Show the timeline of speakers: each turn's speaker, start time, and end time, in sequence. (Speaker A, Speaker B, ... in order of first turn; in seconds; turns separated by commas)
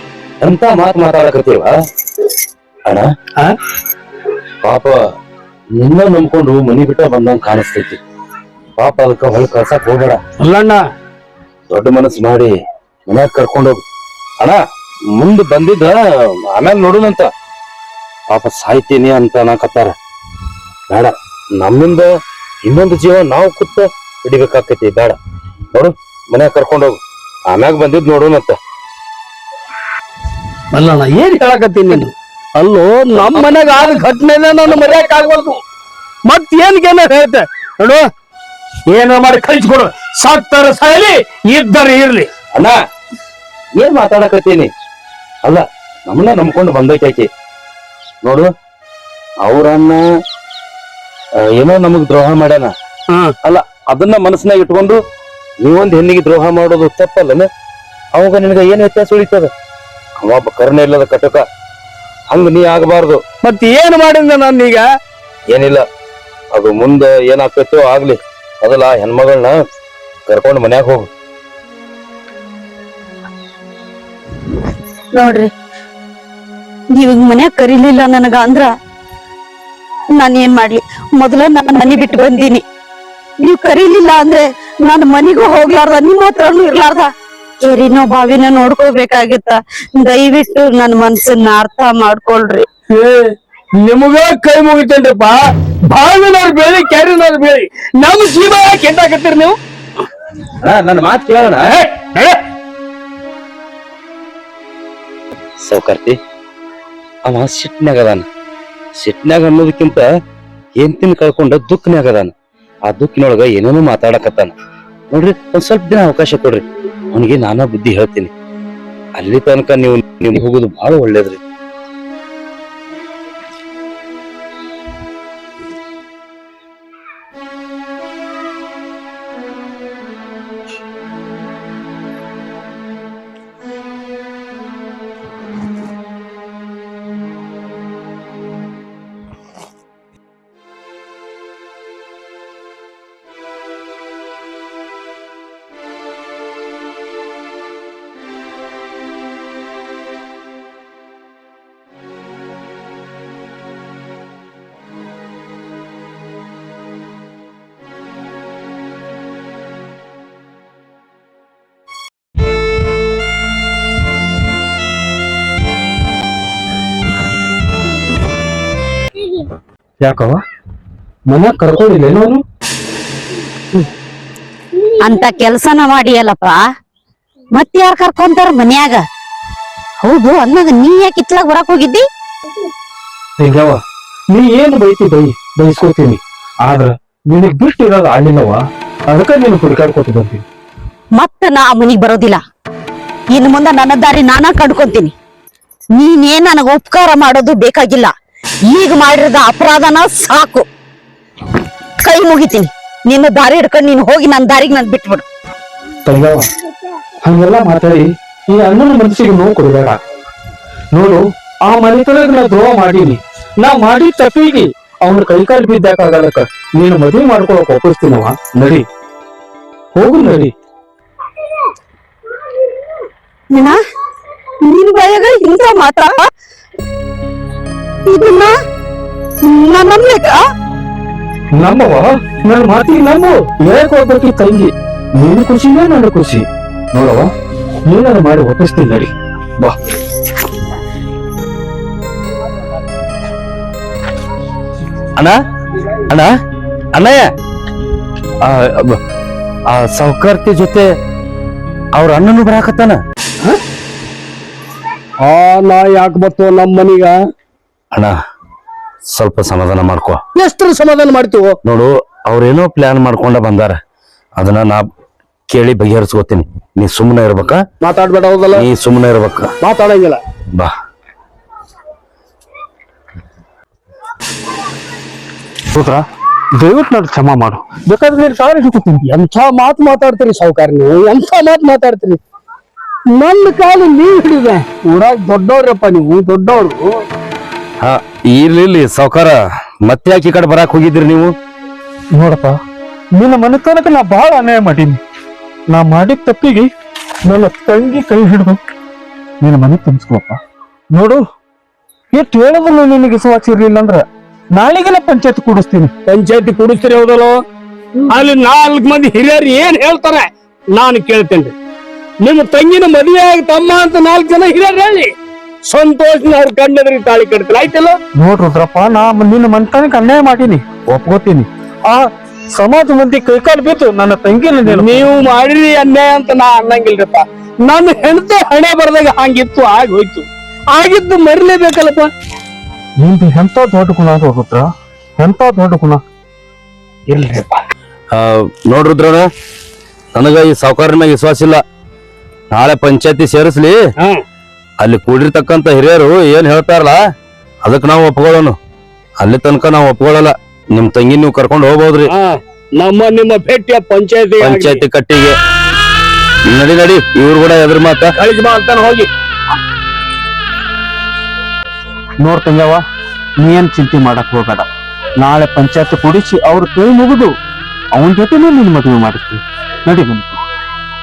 Speaker A: 0.4-1.7, Speaker A: 4.6-4.9, Speaker A: 5.8-8.0, Speaker A: 8.8-10.2, Speaker B: 10.4-10.8, Speaker A: 11.7-12.5, Speaker A: 13.1-13.8, Speaker A: 15.1-17.3, Speaker A: 18.3-19.9, Speaker A: 20.9-22.1, Speaker A: 22.6-25.2, Speaker A: 25.7-28.6, Speaker B: 30.7-35.6, Speaker B: 36.3-38.0, Speaker B: 38.9-42.3, Speaker A: 43.8-44.7, Speaker A: 45.4-47.3, Speaker A: 48.2-48.5, Speaker A: 49.4-50.0, Speaker A: 51.5-52.7, Speaker A: 53.4-55.0, Speaker A: 55.6-57.5, Speaker A: 58.1-59.5, Speaker A: 60.2-61.4, Speaker A: 62.3-63.2, Speaker B: 63.4-64.9, Speaker A: 65.5-65.8, Speaker A: 66.5-69.6, Speaker A: 70.3-71.1, Speaker C: 75.1-75.5, Speaker C: 77.0-78.7, Speaker C: 80.1-82.6, Speaker C: 83.4-87.1, Speaker C: 87.6-92.7, Speaker B: 92.9-99.6, Speaker A: 100.6-101.7, Speaker B: 101.7-102.4, Speaker A: 105.6-106.2, Speaker A: 107.3-108.3, Speaker A: 109.0-110.0, Speaker A: 110.8-112.3, Speaker A: 112.9-114.5, Speaker A: 115.1-118.3, Speaker A: 119.2-121.4, Speaker D: 170.0-170.4, Speaker D: 171.3-172.4, Speaker C: 175.0-176.6, Speaker C: 177.5-179.0, Speaker C: 180.0-182.1, Speaker D: 183.4-183.8, Speaker D: 184.3-190.4, Speaker C: 191.2-192.4, Speaker C: 193.3-195.1, Speaker C: 195.9-198.1, Speaker C: 198.7-200.7, Speaker C: 202.0-205.2, Speaker D: 206.1-206.5, Speaker D: 207.3-210.0, Speaker D: 210.9-218.8, Speaker D: 220.0-220.5, Speaker C: 223.5-223.8, Speaker C: 224.6-226.2, Speaker C: 228.1-228.5, Speaker C: 229.4-230.4, Speaker D: 231.5-237.3, Speaker D: 237.9-239.8, Speaker A: 246.9-247.2, Speaker A: 248.4-249.0, Speaker A: 249.7-250.9, Speaker A: 252.0-253.0, Speaker B: 255.2-257.2, Speaker A: 259.1-260.2, Speaker B: 260.4-261.6, Speaker A: 261.6-263.8, Speaker A: 264.4-264.8, Speaker A: 265.5-267.6, Speaker B: 267.8-268.7, Speaker A: 268.5-269.5, Speaker B: 269.6-270.2, Speaker D: 275.7-276.0, Speaker D: 276.6-279.0, Speaker B: 279.0-282.2, Speaker B: 283.1-286.9, Speaker A: 287.8-291.3, Speaker D: 292.1-292.6, Speaker D: 293.2-295.0, Speaker D: 295.7-296.7, Speaker D: 297.3-298.6, Speaker D: 299.4-300.4, Speaker D: 300.9-301.2, Speaker D: 302.1-304.1, Speaker D: 304.6-305.9, Speaker B: 306.1-307.4, Speaker B: 308.1-311.5, Speaker B: 312.2-315.1, Speaker B: 315.7-318.0, Speaker D: 318.2-325.1, Speaker B: 324.6-332.1, Speaker D: 333.0-336.0, Speaker B: 337.1-337.6, Speaker A: 338.1-339.3, Speaker A: 340.1-341.6, Speaker A: 342.5-343.8, Speaker A: 344.8-347.0, Speaker A: 347.6-348.6, Speaker A: 349.2-352.1, Speaker B: 352.1-354.8, Speaker A: 354.4-355.4, Speaker A: 356.5-358.1, Speaker B: 358.2-359.1, Speaker D: 362.2-362.8, Speaker D: 363.4-364.7, Speaker D: 365.2-367.3, Speaker D: 367.9-370.4